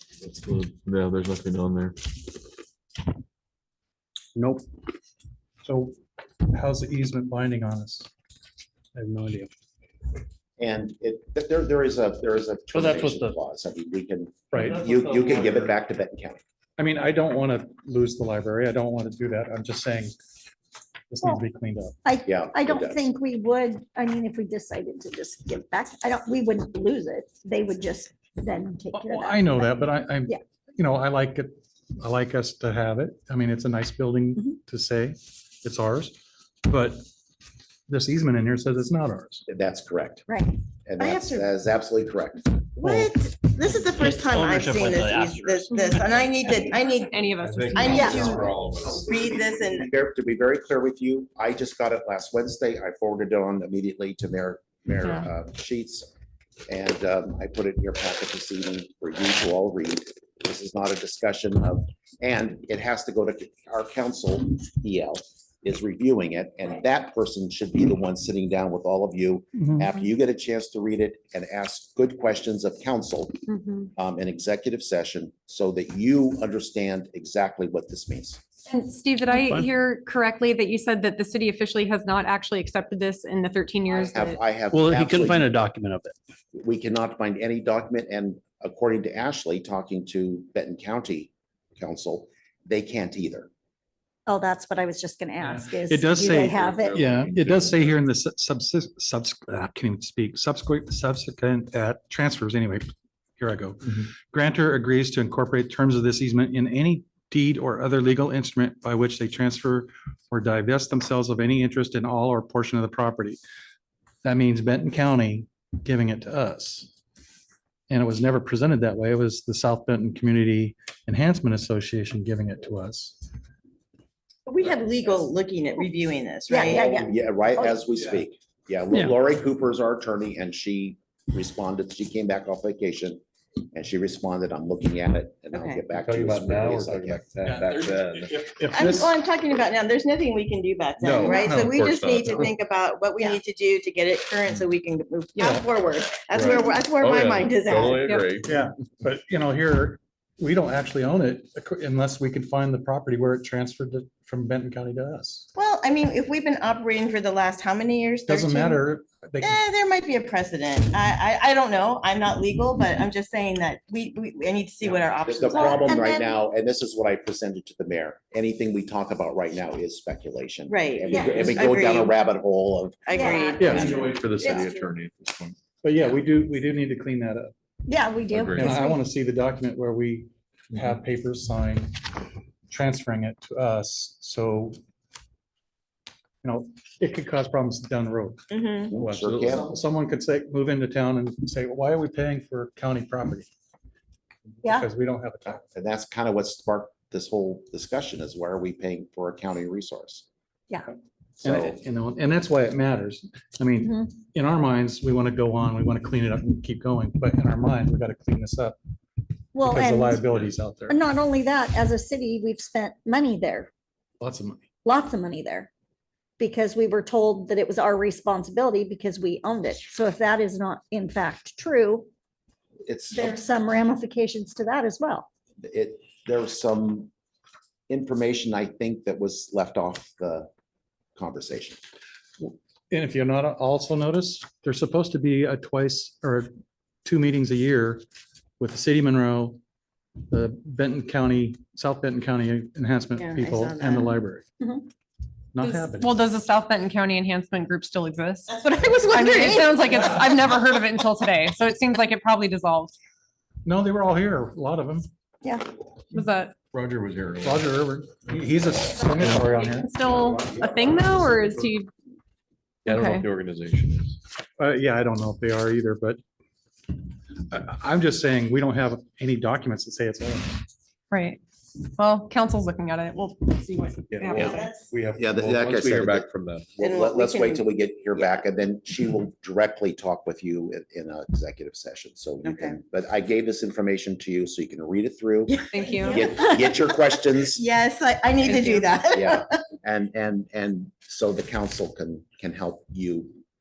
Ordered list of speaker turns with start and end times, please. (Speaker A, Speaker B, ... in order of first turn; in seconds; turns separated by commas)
Speaker A: 0.2-2.2, Speaker B: 5.6-8.1, Speaker B: 9.0-9.5, Speaker C: 10.6-16.4, Speaker B: 14.5-14.9, Speaker B: 16.8-20.1, Speaker B: 21.1-22.0, Speaker D: 22.1-30.4, Speaker C: 22.2-23.1, Speaker B: 28.9-37.0, Speaker B: 37.9-39.5, Speaker C: 39.5-40.3, Speaker D: 40.3-40.6, Speaker C: 40.9-42.5, Speaker E: 41.0-41.5, Speaker E: 42.8-47.1, Speaker F: 44.7-45.4, Speaker G: 45.7-46.0, Speaker G: 47.1-48.4, Speaker A: 47.5-49.3, Speaker E: 47.7-49.9, Speaker D: 48.0-48.3, Speaker C: 49.7-56.1, Speaker G: 55.0-55.3, Speaker C: 56.7-73.4, Speaker G: 73.5-73.9, Speaker C: 74.0-78.4, Speaker G: 78.7-84.4, Speaker C: 83.9-85.5, Speaker F: 84.7-86.1, Speaker C: 86.5-93.5, Speaker D: 94.3-97.0, Speaker B: 95.4-102.9, Speaker A: 96.3-98.0, Speaker B: 103.4-113.4, Speaker B: 114.2-116.9, Speaker B: 117.9-123.2, Speaker E: 124.5-126.9, Speaker D: 126.5-127.8, Speaker C: 126.9-138.0, Speaker E: 135.5-135.9, Speaker A: 136.5-138.3, Speaker B: 138.2-139.1, Speaker E: 138.7-148.0, Speaker A: 141.0-142.5, Speaker B: 141.2-141.8, Speaker A: 146.3-148.5, Speaker G: 148.0-148.3, Speaker B: 148.4-155.5, Speaker E: 155.6-158.8, Speaker B: 158.3-159.6, Speaker E: 159.4-166.3, Speaker C: 165.3-174.2, Speaker D: 165.6-166.1, Speaker E: 170.7-172.2, Speaker D: 171.1-171.6, Speaker E: 173.1-173.6, Speaker D: 173.1-174.8, Speaker B: 173.6-174.3, Speaker A: 173.6-175.6, Speaker B: 175.8-177.5, Speaker D: 177.8-179.0, Speaker A: 178.3-178.8, Speaker B: 178.6-182.1, Speaker B: 182.7-184.8, Speaker B: 186.4-188.4, Speaker E: 188.5-189.0, Speaker C: 188.9-189.7, Speaker A: 189.0-189.7, Speaker B: 189.4-193.5, Speaker B: 194.6-195.6, Speaker C: 195.7-200.2, Speaker C: 201.4-201.8, Speaker B: 201.4-208.8, Speaker D: 209.6-210.2, Speaker B: 209.6-211.0, Speaker D: 210.9-213.7, Speaker B: 214.2-214.6, Speaker D: 214.8-215.7, Speaker D: 216.4-222.1, Speaker C: 222.8-223.4, Speaker D: 223.1-225.3, Speaker C: 225.6-227.1, Speaker C: 227.9-230.5, Speaker C: 231.2-231.8, Speaker B: 232.4-236.5, Speaker B: 237.1-238.0, Speaker B: 238.6-239.6, Speaker B: 240.3-244.5, Speaker E: 243.2-244.2, Speaker B: 245.5-246.2, Speaker G: 245.6-248.5, Speaker D: 248.7-249.8, Speaker G: 249.1-252.9, Speaker B: 253.7-255.1, Speaker G: 256.1-256.6, Speaker A: 256.7-257.6, Speaker B: 257.4-259.9, Speaker G: 259.0-261.9, Speaker A: 262.9-264.2, Speaker G: 262.9-263.3, Speaker B: 264.6-266.2, Speaker B: 267.5-270.6, Speaker G: 271.1-271.4, Speaker G: 271.9-274.7, Speaker C: 274.3-287.6, Speaker E: 274.5-275.0, Speaker A: 275.2-276.7, Speaker E: 276.8-278.4, Speaker E: 282.4-282.8, Speaker E: 285.5-286.3, Speaker G: 285.7-286.2, Speaker E: 287.5-289.6, Speaker C: 289.1-293.4